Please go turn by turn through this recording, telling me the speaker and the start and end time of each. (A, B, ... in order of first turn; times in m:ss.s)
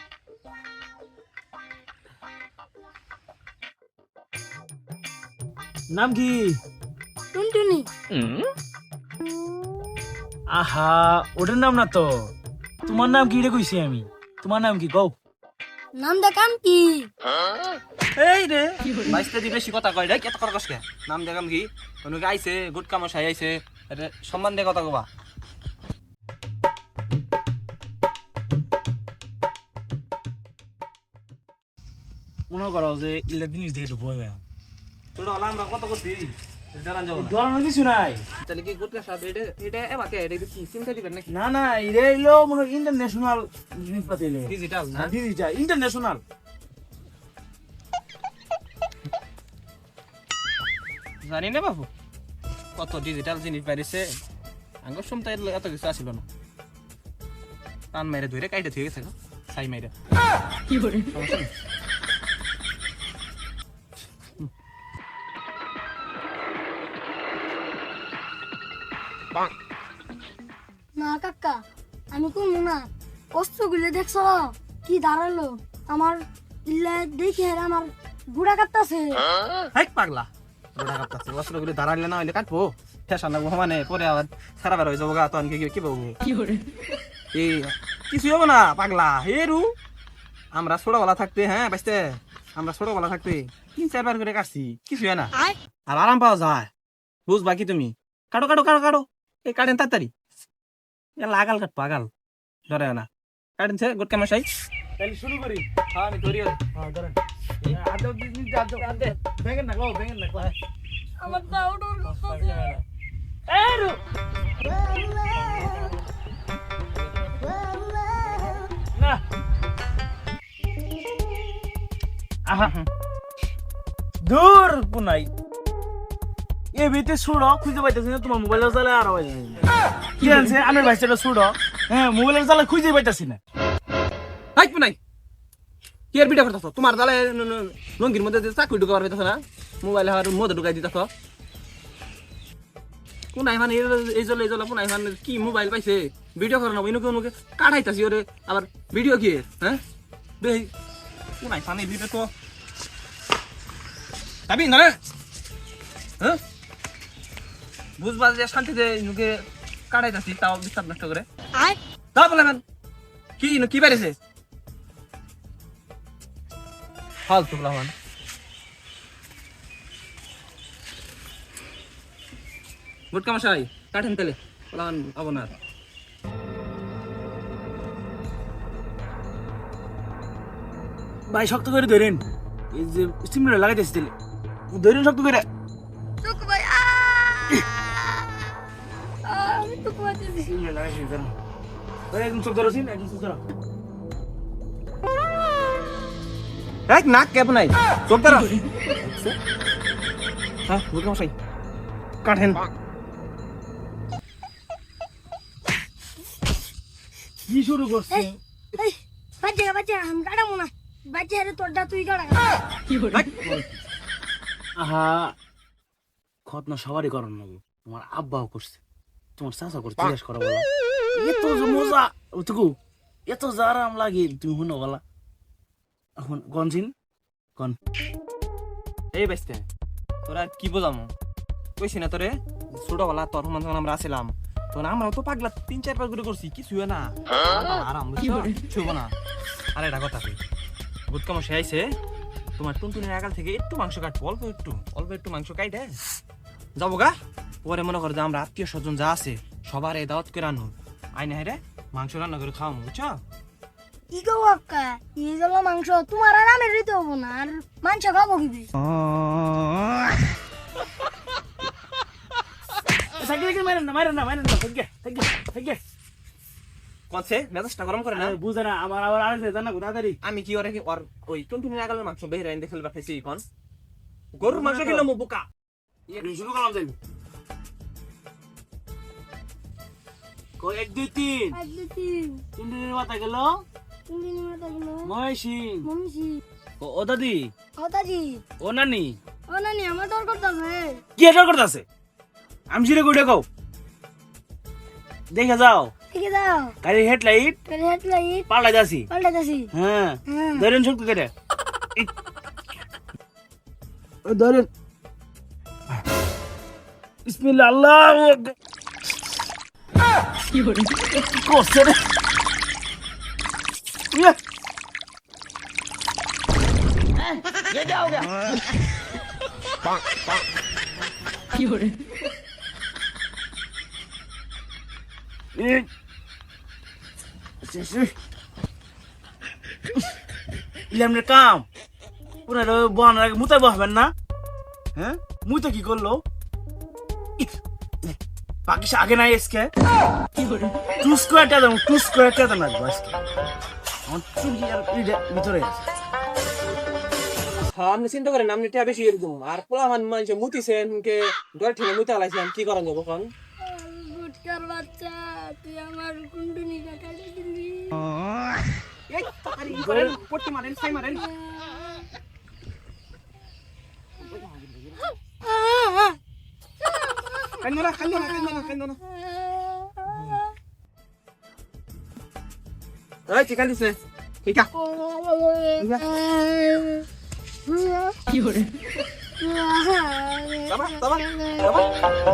0:05.9-0:06.6 A
0:07.3-0:07.9 B
0:10.5-0:12.3 A
0:12.9-0:15.2 A
0:16.0-0:17.1 B
0:18.2-0:25.1 C
0:32.5-0:34.4 A
0:35.2-0:37.4 C
0:37.2-0:38.2 A
0:38.4-0:41.3 C
0:41.3-0:46.2 A
0:44.5-0:45.2 C
0:51.2-0:51.9 C
0:52.8-0:54.1 C
0:54.8-0:56.2 C
0:57.9-0:59.9 C
1:00.9-1:01.5 C
1:11.0-1:11.6 B
1:12.1-1:19.2 B
1:19.8-1:26.2 C
1:27.3-1:29.7 C
1:30.5-1:35.4 C
1:35.9-1:36.7 C
1:37.3-1:40.1 C
1:41.2-1:42.1 C
1:42.7-1:43.1 C
1:43.6-1:44.5 C
1:45.0-1:45.7 A
1:45.9-1:46.6 C
1:46.8-1:50.6 A
1:48.8-1:49.1 C
1:51.2-1:52.8 B
1:52.1-1:52.8 A
1:53.5-1:54.0 A
1:54.8-1:55.9 B
1:59.0-1:59.2 A
2:02.5-2:02.7 A
2:02.6-2:02.9 C
2:04.2-2:05.3 A
2:06.7-2:09.6 A
2:10.2-2:13.4 A
2:14.6-2:15.0 C
2:16.1-2:21.1 C
2:23.3-2:29.8 C
2:30.4-2:30.7 C
2:31.4-2:32.3 C
2:34.5-2:35.0 C
2:38.0-2:41.3 C
2:42.2-2:42.6 C
2:43.4-2:44.2 C
2:47.3-2:47.9 C
2:53.1-2:55.6 C
3:01.3-3:04.1 A
3:04.7-3:05.4 A
3:06.2-3:07.6 B
3:09.2-3:10.5 B
3:10.5-3:11.4 A
3:12.1-3:13.4 A
3:16.9-3:19.4 C
3:20.7-3:21.3 C
3:22.2-3:22.6 C
3:27.4-3:28.4 A
3:28.1-3:32.6 B
3:33.1-3:33.7 C
3:34.8-3:35.4 A
3:36.5-3:38.8 A
3:39.4-3:42.8 A
3:43.3-3:45.0 A
3:46.2-3:46.9 A
3:49.1-3:49.7 C
3:50.3-3:51.1 C
3:51.8-3:59.1 C
3:59.8-4:00.4 C
4:01.1-4:01.9 C
4:02.6-4:06.0 C
4:06.8-4:13.2 C
4:14.1-4:18.7 B
4:23.2-4:25.8 A
4:27.1-4:28.4 C
4:28.1-4:30.2 A
4:30.2-4:33.4 C
4:34.4-4:35.5 C
4:34.4-4:35.1 A
4:36.1-4:37.0 A
4:40.6-4:41.6 A
4:41.5-4:42.4 B
4:42.6-4:43.6 A
4:44.1-4:45.1 B
4:45.0-4:45.9 A
4:45.8-4:46.4 B
4:46.8-4:47.5 A
4:47.8-4:48.4 B
4:48.6-4:49.2 A
4:49.5-4:51.0 B
4:51.2-4:51.9 A
4:52.7-4:53.5 A
4:55.3-4:55.9 A
4:56.1-4:56.8 B
4:56.8-4:57.6 A
4:57.7-4:58.5 B
4:58.5-4:59.1 A
4:59.1-4:59.7 B
4:59.7-5:01.3 A
5:00.3-5:00.6 C
5:04.2-5:04.7 A
5:07.3-5:08.6 A
5:11.3-5:12.0 A
5:14.1-5:14.4 A
5:17.7-5:18.3 A
5:25.6-5:25.9 A
5:27.6-5:28.2 A
5:30.9-5:31.7 A
5:32.5-5:34.1 A
5:35.0-5:36.2 A
5:38.6-5:39.7 A
5:41.0-5:43.2 A
5:44.1-5:45.8 A
5:47.6-5:53.3 C
5:53.6-5:58.1 B
5:59.1-6:01.3 C
5:59.7-6:00.2 A
6:01.4-6:02.0 B
6:05.4-6:06.2 B
6:07.6-6:09.0 C
6:09.6-6:10.1 B
6:13.3-6:14.7 C
6:15.0-6:17.0 B
6:15.8-6:16.1 C
6:17.7-6:18.5 B
6:19.4-6:20.8 B
6:20.7-6:21.9 C